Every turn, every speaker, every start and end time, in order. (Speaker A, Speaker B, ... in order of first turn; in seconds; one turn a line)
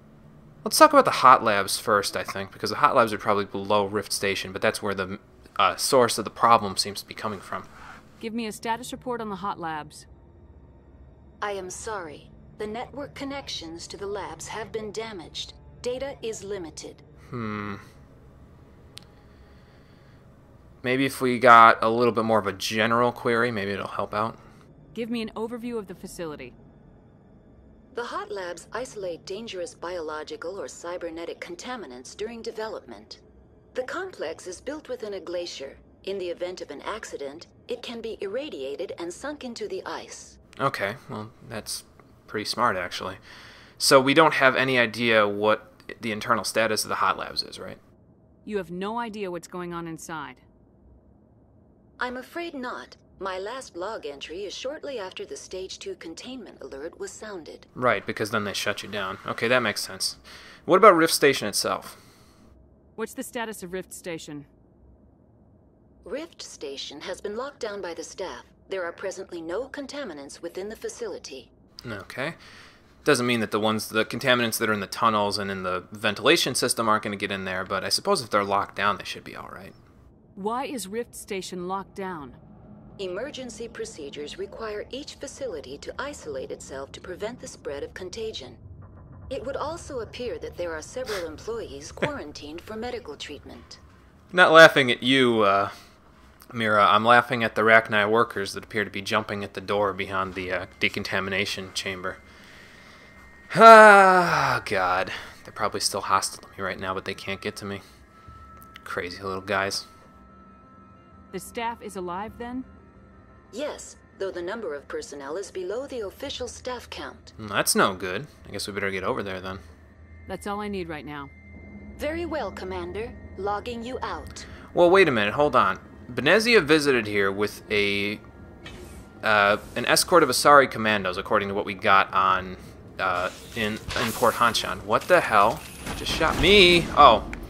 Speaker A: 0.6-7.7
Speaker B: 8.2-10.1
Speaker C: 11.4-17.0
Speaker A: 17.3-17.8
Speaker A: 20.8-24.4
Speaker B: 24.9-26.6
Speaker C: 27.9-33.2
Speaker C: 33.7-40.4
Speaker A: 40.6-43.2
Speaker A: 43.8-47.8
Speaker B: 48.5-50.4
Speaker C: 52.0-57.7
Speaker A: 57.8-62.0
Speaker B: 63.0-64.5
Speaker C: 66.0-71.5
Speaker A: 71.8-72.4
Speaker A: 73.0-79.8
Speaker B: 80.4-82.4
Speaker C: 83.0-88.6
Speaker C: 89.3-93.8
Speaker A: 94.3-95.7
Speaker A: 96.5-102.2
Speaker A: 103.5-107.8
Speaker A: 108.8-109.9
Speaker B: 111.3-112.7
Speaker C: 113.5-117.3
Speaker A: 117.4-119.6
Speaker B: 120.3-121.3
Speaker C: 122.0-124.5
Speaker A: 124.7-128.2
Speaker A: 129.2-137.3